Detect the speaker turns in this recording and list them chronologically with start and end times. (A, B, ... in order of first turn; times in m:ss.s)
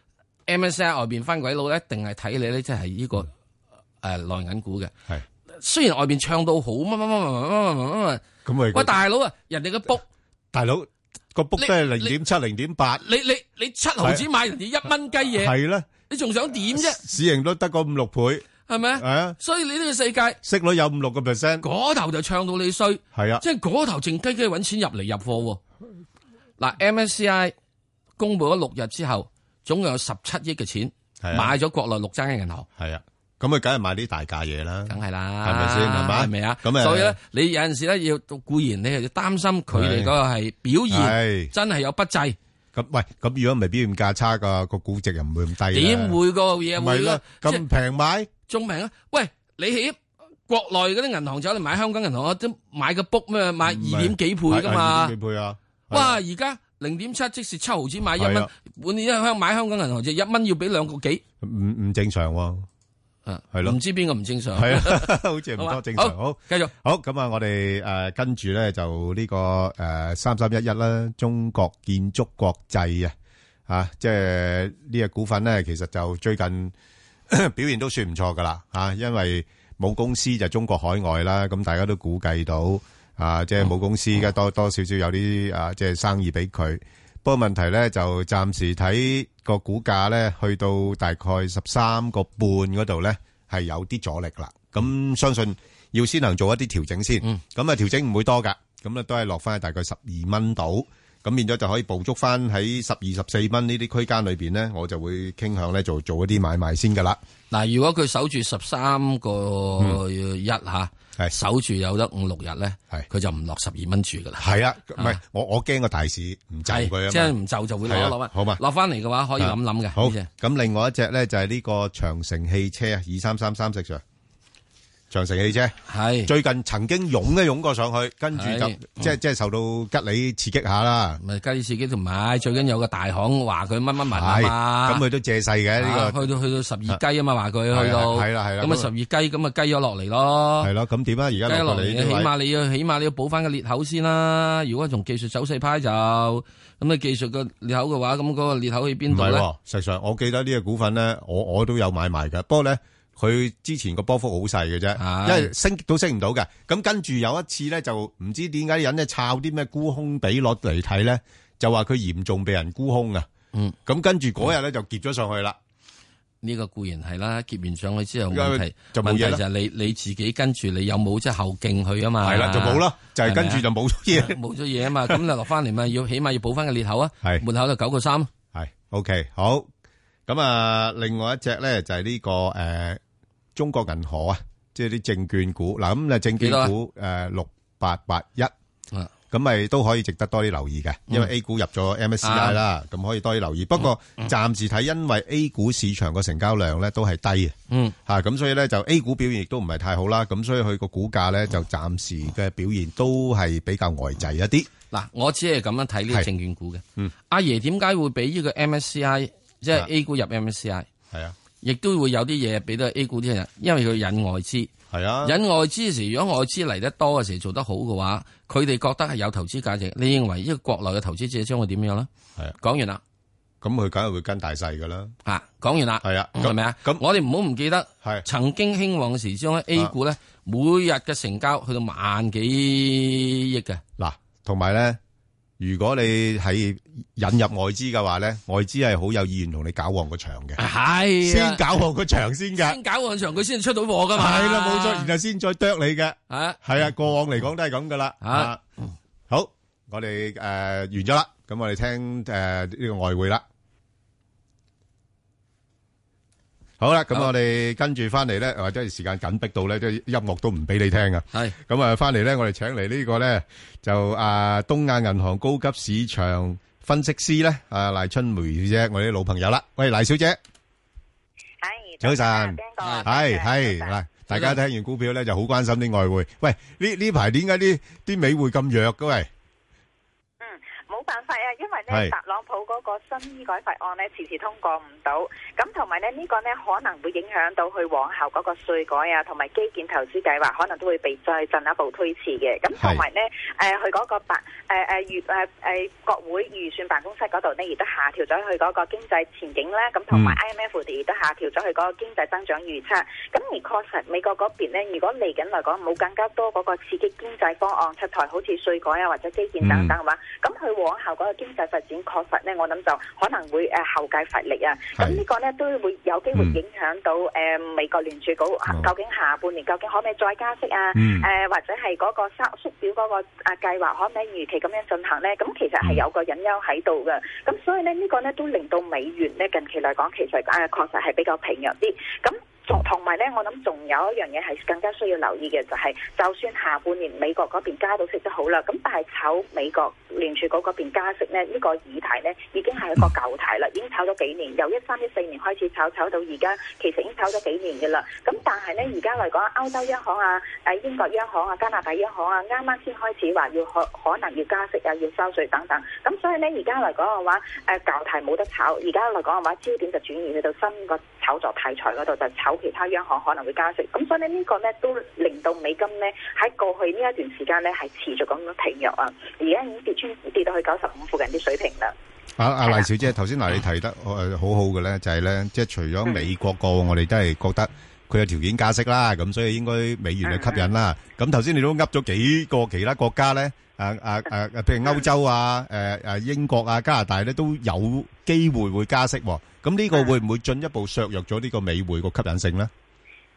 0:00.5-0:03.3 A
0:04.0-0:04.9 A
0:05.5-0:10.0 A
0:08.4-0:09.0 B
0:10.5-0:13.0 B
0:11.6-0:12.1 A
0:13.0-0:15.5 A
0:15.3-0:15.9 B
0:16.1-0:17.0 A
0:16.7-0:19.4 B
0:18.7-0:20.4 A
0:20.4-0:21.6 B
0:21.6-0:25.6 A
0:23.1-0:23.4 B
0:26.6-0:27.5 A
0:28.2-0:32.7 A
0:31.2-0:31.5 B
0:32.8-0:37.2 B
0:34.9-0:42.4 A
0:39.7-0:40.1 B
0:40.9-0:41.5 B
0:42.7-0:46.2 B
0:45.7-0:47.6 A
0:46.7-0:48.3 B
0:48.5-0:50.0 A
0:50.5-0:55.1 A
0:53.6-0:56.2 B
0:55.9-1:01.2 A
0:58.2-0:58.5 B
1:01.4-1:02.7 B
1:03.2-1:06.7 A
1:04.5-1:13.1 B
1:13.7-1:16.7 B
1:17.3-1:47.2 B
1:47.5-1:54.4 A
1:54.4-1:57.3 B
1:56.7-2:00.3 A
1:57.8-1:58.6 B
1:59.4-2:04.0 B
2:05.1-2:11.2 B
2:05.9-2:06.3 A
2:08.4-2:09.1 A
2:11.2-2:15.0 A
2:14.0-2:16.2 B
2:15.8-2:20.7 A
2:17.7-2:18.9 B
2:20.6-2:22.3 B
2:21.4-2:29.4 A
2:29.1-2:43.3 B
2:35.0-2:35.5 A
2:43.8-2:45.6 B
2:46.4-2:58.3 A
2:48.3-2:49.4 B
2:52.2-2:54.4 B
2:58.5-2:59.7 B
3:00.3-3:03.0 B
3:03.5-3:08.5 B
3:06.4-3:06.7 A
3:09.3-3:17.6 B
3:12.2-3:12.6 A
3:17.7-3:18.0 A
3:18.1-3:24.7 B
3:24.9-3:30.9 A
3:31.6-3:34.7 A
3:34.9-3:35.4 B
3:35.2-3:42.1 A
3:42.6-3:43.0 A
3:43.6-3:45.1 B
3:45.2-3:53.8 A
3:46.0-3:47.0 B
3:54.0-3:55.0 B
3:55.6-4:00.6 B
4:00.6-4:01.6 A
4:01.2-4:02.8 B
4:02.5-4:05.1 A
4:04.1-4:08.6 B
4:06.3-4:06.6 A
4:08.2-4:08.9 A
4:09.3-4:13.4 B
4:16.8-4:30.4 B
4:31.6-4:34.0 C
4:32.0-4:39.3 B
4:32.8-4:33.1 A
4:34.3-4:34.6 A
4:40.4-6:11.9 C
4:52.8-4:53.0 B
5:00.1-5:00.4 B
5:09.6-5:09.9 B
5:15.0-5:15.2 B
5:21.0-5:21.3 B
6:12.4-6:32.7 B
6:12.6-6:12.9 C
6:20.2-6:20.7 C